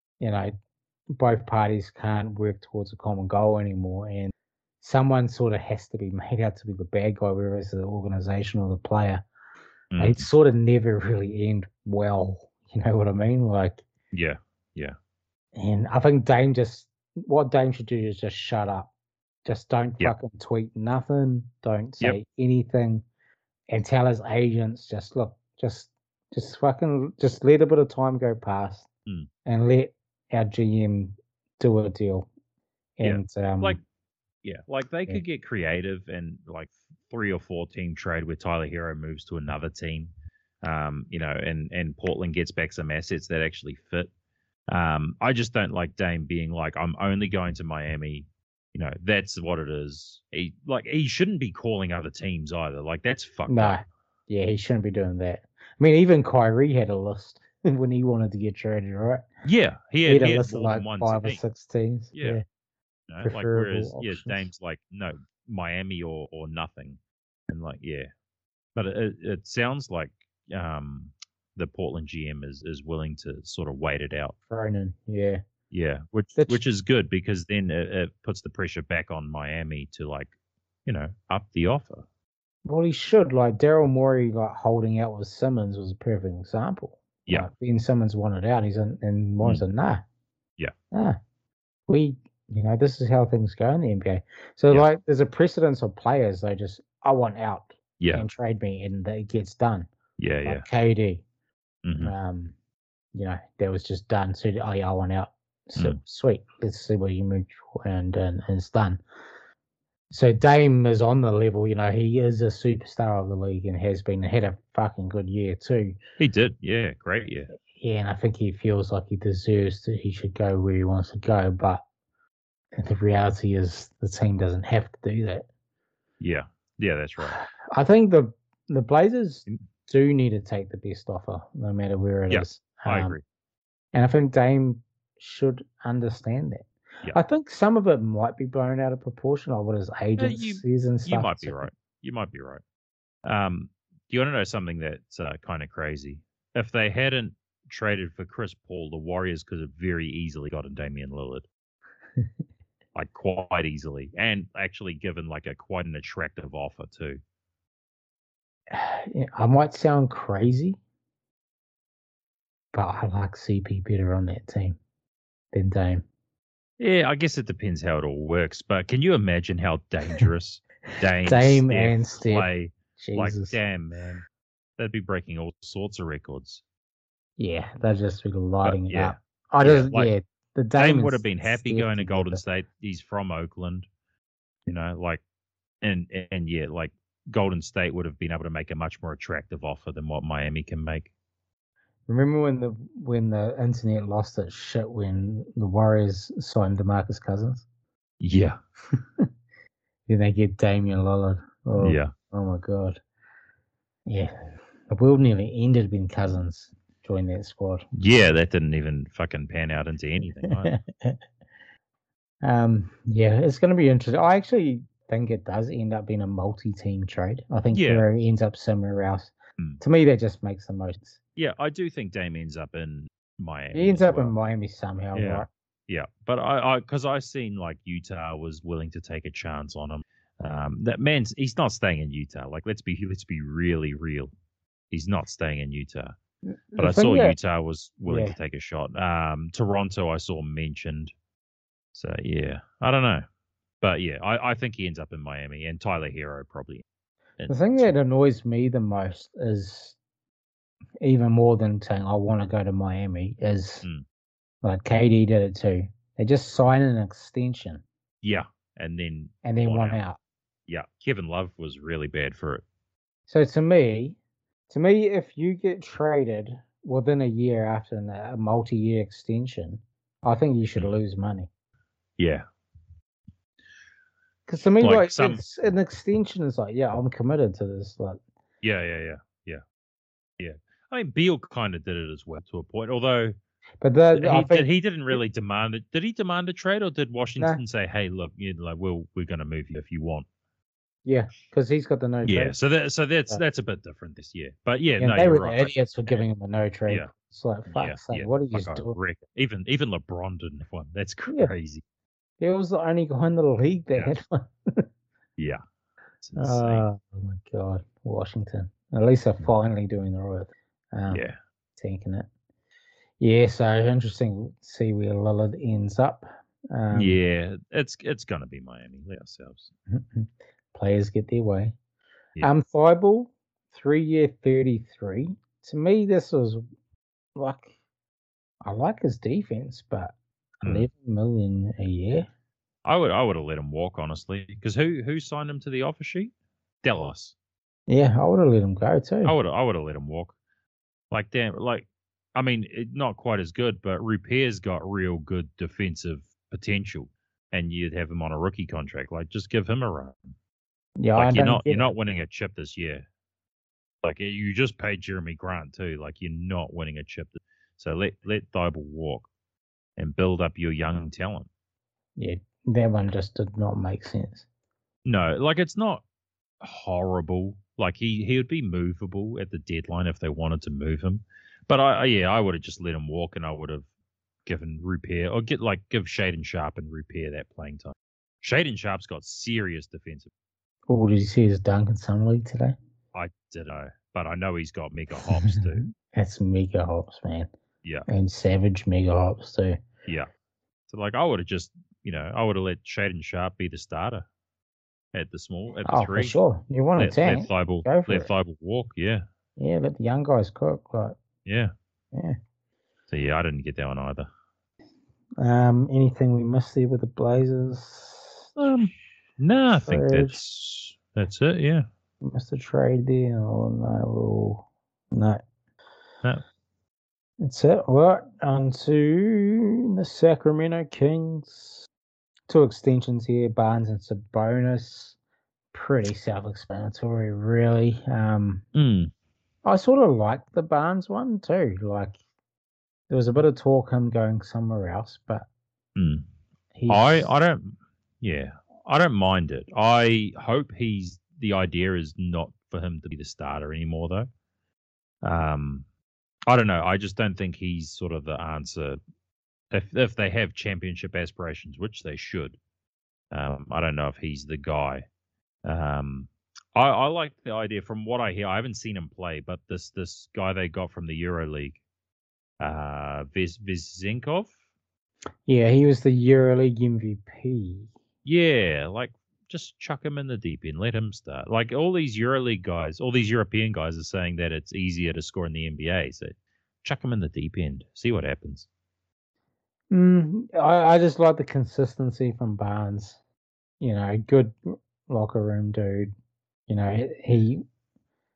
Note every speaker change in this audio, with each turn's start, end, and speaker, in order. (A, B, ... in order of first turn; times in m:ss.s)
0:00.2-0:00.5 A
0:01.1-0:09.3 A
0:09.9-0:10.3 B
0:10.0-0:13.8 A
0:14.1-0:15.0 B
0:15.6-0:18.9 A
0:19.4-0:23.0 A
0:23.7-0:28.9 A
0:29.5-0:32.3 A
0:33.0-0:33.8 A
0:33.0-0:33.8 B
0:34.4-0:40.1 B
0:40.6-0:44.1 B
0:44.7-0:53.8 B
0:53.5-0:59.3 A
0:59.4-1:01.4 B
1:00.0-1:02.4 A
1:02.1-1:02.4 B
1:03.1-1:08.1 B
1:03.2-1:04.5 A
1:08.8-1:14.4 B
1:14.5-1:15.4 A
1:15.7-1:20.3 B
1:16.4-1:16.6 A
1:20.9-1:22.0 B
1:22.6-1:30.0 A
1:30.9-1:31.2 A
1:31.9-1:39.9 A
1:38.0-1:38.3 B
1:40.2-1:40.7 B
1:40.4-1:41.2 A
1:41.8-1:42.1 B
1:42.0-1:42.6 A
1:43.1-1:49.0 A
1:50.1-1:56.0 A
1:56.2-1:57.5 B
1:57.7-2:01.8 A
2:02.8-2:05.5 A
2:06.2-2:07.4 B
2:07.2-2:13.2 A
2:12.3-2:13.2 B
2:13.9-2:21.6 A
2:20.2-2:22.6 B
2:23.2-2:31.5 B
2:33.0-2:37.2 B
2:38.7-2:40.8 A
2:42.7-2:44.8 A
2:45.5-2:46.0 A
2:46.8-2:54.2 B
2:51.2-2:53.6 A
2:54.8-2:56.6 B
2:57.4-3:02.4 A
2:58.6-3:00.1 B
3:00.8-3:03.9 B
3:04.7-3:05.2 B
3:05.8-3:11.1 B
3:12.1-3:17.7 A
3:18.2-3:18.6 B
3:20.1-3:23.0 A
3:21.8-3:22.1 B
3:24.1-3:24.3 A
3:24.9-3:27.9 A
3:27.9-3:30.7 B
3:30.4-3:31.2 A
3:32.4-3:41.2 A
3:37.7-3:38.1 B
3:41.4-3:44.3 B
3:43.7-3:45.5 A
3:45.2-3:54.3 B
3:54.9-3:56.1 B
3:56.7-3:57.4 A
3:56.8-4:01.1 B
3:58.1-3:58.4 A
4:01.9-4:03.2 B
4:03.8-4:06.8 B
4:07.4-4:07.9 B
4:07.5-4:10.0 A
4:11.0-4:13.9 A
4:14.6-4:17.8 A
4:18.2-4:20.0 B
4:19.4-4:20.2 A
4:20.7-4:22.6 B
4:23.3-4:24.2 A
4:24.7-4:31.5 A
4:32.2-4:32.4 B
4:34.5-4:38.2 A
4:34.8-4:35.4 B
4:38.6-4:39.6 B
4:40.4-4:43.4 B
4:43.8-4:45.2 A
4:44.2-4:50.3 B
4:51.0-4:52.6 A
4:52.2-4:56.2 B
4:55.0-4:59.0 A
4:57.7-5:01.8 B
5:02.4-5:04.8 A
5:06.2-5:06.9 B
5:06.4-5:11.2 A
5:11.1-5:11.4 B
5:11.8-5:12.3 A
5:13.2-5:17.2 A
5:16.9-5:19.7 B
5:19.9-5:21.8 A
5:22.4-5:26.6 A
5:27.4-5:27.7 A
5:28.6-5:32.3 A
5:32.8-5:37.4 B
5:37.9-5:39.4 A
5:39.2-5:40.4 B
5:41.1-5:50.3 B
5:51.0-5:51.9 A
5:51.2-5:53.0 B
5:54.0-5:59.3 B
6:00.0-6:01.5 B
6:02.2-6:04.5 A
6:05.0-6:06.0 B
6:06.6-6:13.9 B
6:14.5-6:20.3 B
6:20.9-6:22.8 A
6:23.1-6:25.8 B
6:25.2-6:27.5 A
6:28.1-6:29.8 A
6:30.9-6:34.3 B
6:35.1-6:36.4 B
6:35.9-6:38.3 A
6:37.0-6:39.2 B
6:39.6-6:41.2 A
6:41.4-6:41.7 B
6:43.1-6:44.3 B
6:45.4-6:48.5 A
6:48.6-6:51.9 B
6:49.8-6:50.4 A
6:52.2-6:55.4 A
6:57.4-7:01.9 A
7:02.5-7:05.2 A
7:05.7-7:08.6 A
7:08.8-7:09.1 B
7:09.6-7:12.2 A
7:13.1-7:15.5 A
7:16.0-7:16.3 B
7:16.8-7:17.3 A
7:16.9-7:24.3 B
7:25.2-7:25.8 B
7:26.5-7:29.0 B
7:29.7-7:32.6 B
7:33.3-7:35.0 B
7:35.6-7:41.8 B
7:42.6-7:44.5 B
7:45.5-7:47.9 A
7:48.2-7:58.7 B
7:59.9-8:03.2 A
8:03.8-8:04.6 A
8:05.1-8:06.1 A
8:06.7-8:07.6 A